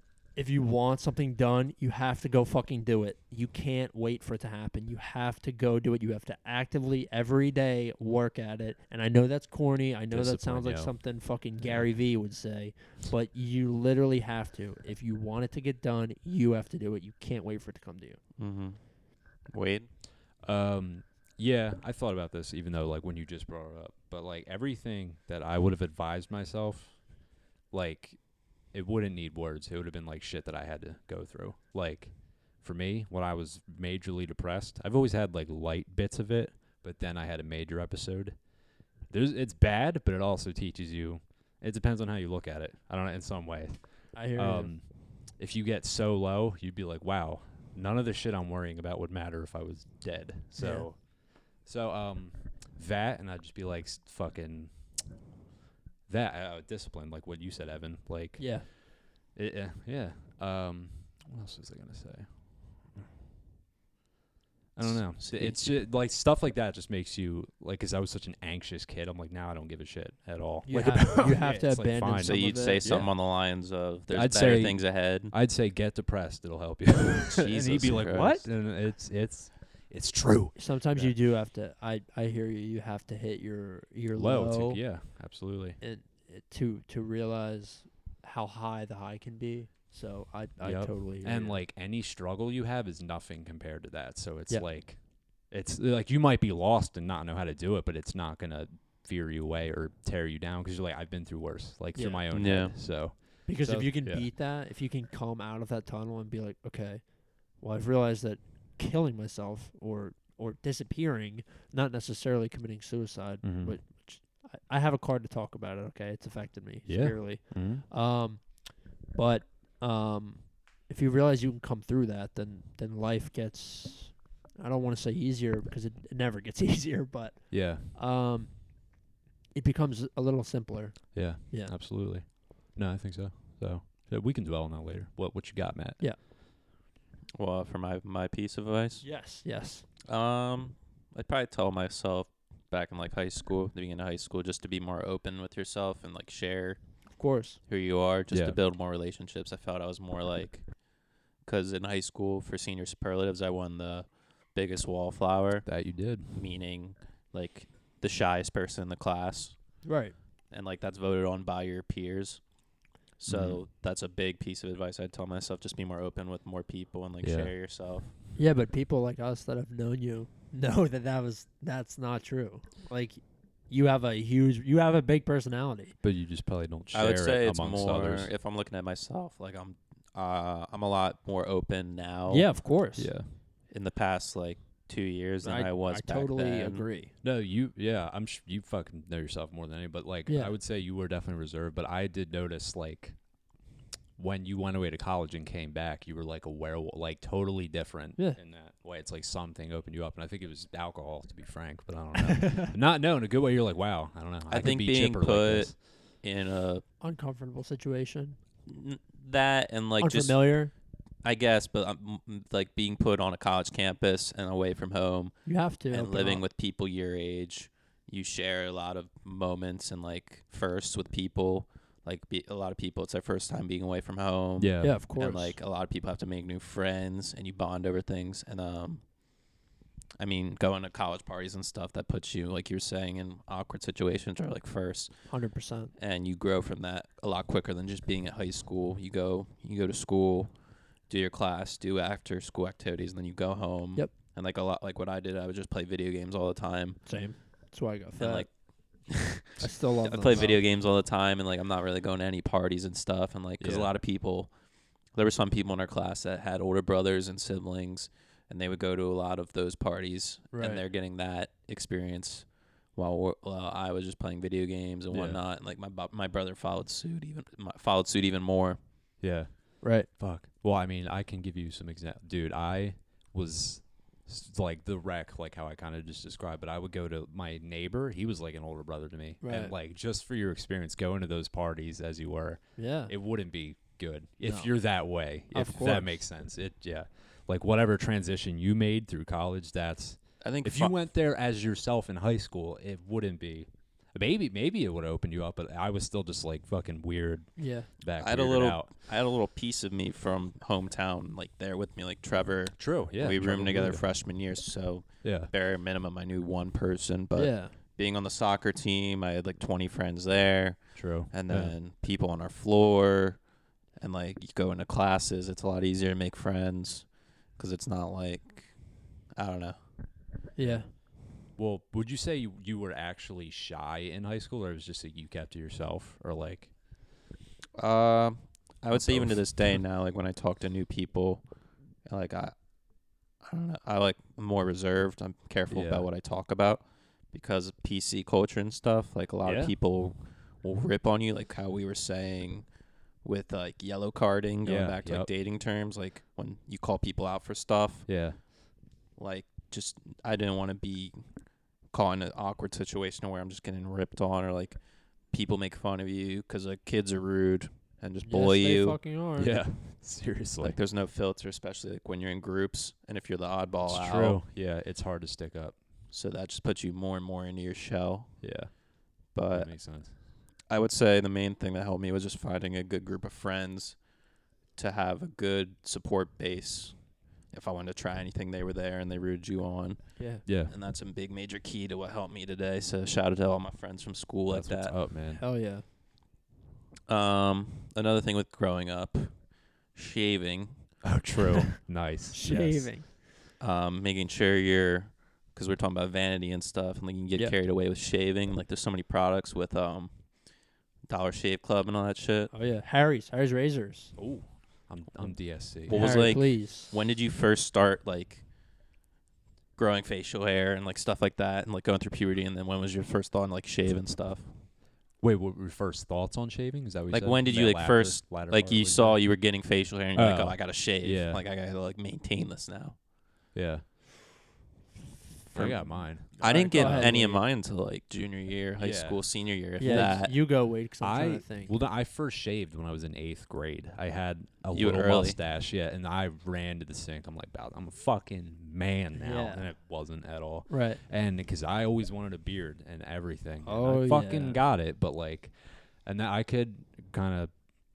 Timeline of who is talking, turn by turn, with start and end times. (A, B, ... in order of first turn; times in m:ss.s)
0:00.4-0:18.2 A
0:10.1-0:10.9 B
0:11.6-0:11.9 B
0:18.4-0:18.9 C
0:19.4-0:19.9 C
0:20.4-0:38.5 B
0:39.1-0:55.0 B
0:44.1-0:44.8 A
0:50.6-0:50.9 A
0:56.1-1:03.1 B
0:58.4-0:58.7 A
1:04.7-1:13.2 B
1:04.8-1:05.6 C
1:10.6-1:12.8 A
1:12.2-1:15.3 C
1:14.1-1:21.2 B
1:17.0-1:18.5 C
1:20.6-1:25.0 A
1:24.1-1:25.8 B
1:25.8-1:31.6 A
1:30.6-1:44.3 B
1:41.9-2:09.0 A
1:42.3-1:42.8 C
1:53.4-1:53.8 B
1:56.8-1:57.8 B
2:07.5-2:07.9 B
2:09.5-2:11.8 A
2:11.1-2:16.0 B
2:17.3-2:19.1 C
2:19.0-2:19.9 A
2:20.0-2:26.8 C
2:27.2-2:27.6 A
2:27.7-2:30.8 C
2:28.3-2:28.6 B
2:31.4-2:39.9 C
2:35.6-2:36.4 B
2:39.8-2:40.1 A
2:40.5-2:42.5 C
2:43.2-2:48.1 C
2:43.3-2:43.6 B
2:47.2-2:47.5 B
2:48.4-2:56.0 A
2:56.0-2:58.3 B
2:56.9-3:02.5 C
3:02.3-3:03.2 A
3:03.0-3:03.3 B
3:03.7-3:06.8 C
3:05.4-3:07.1 A
3:07.2-3:13.3 B
3:10.3-3:10.5 A
3:14.2-3:25.8 B
3:22.3-3:22.7 A
3:24.5-3:26.8 C
3:27.0-3:28.4 A
3:28.6-3:30.6 C
3:30.0-3:30.7 A
3:31.2-3:49.1 C
3:35.4-3:36.4 A
3:44.6-3:45.0 B
3:44.8-3:45.6 A
3:50.2-3:55.4 C
3:55.3-3:55.9 A
3:56.0-4:07.0 C
4:07.0-4:08.5 A
4:08.2-4:08.5 C
4:09.0-4:14.5 C
4:09.6-4:10.6 A
4:13.6-4:13.9 B
4:15.1-4:28.8 C
4:20.5-4:20.8 A
4:25.1-4:25.4 B
4:29.2-4:58.9 B
4:29.8-4:30.1 A
4:39.4-4:39.7 A
4:42.8-4:43.1 A
4:44.4-4:46.3 A
4:50.4-4:51.0 C
4:57.6-4:57.9 A
4:58.2-5:19.8 C
5:02.8-5:04.1 B
5:05.2-5:05.5 B
5:07.3-5:07.7 A
5:10.9-5:11.7 B
5:20.5-5:20.9 A
5:20.6-5:26.7 B
5:27.8-5:31.4 C
5:28.9-5:29.8 B
5:32.0-5:32.6 C
5:33.3-5:42.7 C
5:35.7-5:36.0 B
5:39.4-5:39.7 B
5:43.2-5:48.1 C
5:44.6-5:45.3 B
5:48.1-5:48.4 B
5:49.2-5:59.0 C
5:58.2-5:59.7 A
5:59.4-6:00.8 B
6:00.6-6:04.4 C
6:03.8-6:05.8 B
6:06.1-6:08.6 C
6:08.4-6:10.2 B
6:09.3-6:14.1 C
6:14.7-6:25.2 C
6:20.2-6:20.4 A
6:20.4-6:20.7 B
6:24.5-6:25.4 B
6:25.4-6:25.8 A
6:27.1-6:31.1 C
6:31.0-6:33.0 B
6:32.3-6:33.1 A
6:33.6-6:40.4 C
6:41.0-6:42.5 C
6:42.5-6:44.2 A
6:44.2-6:46.2 B
6:45.8-6:48.4 C
6:45.9-6:46.9 A
6:49.8-6:54.5 C
6:55.2-6:59.4 B
6:57.1-7:03.0 C
7:00.1-7:01.4 B
7:03.5-7:03.9 B
7:05.5-7:10.4 C
7:05.5-7:07.1 B
7:06.3-7:07.4 A
7:08.8-7:09.2 B
7:09.8-7:11.7 A
7:09.8-7:10.1 B
7:11.0-7:27.6 B
7:14.7-7:15.4 C
7:19.1-7:19.8 A
7:20.7-7:21.0 A
7:23.6-7:24.6 A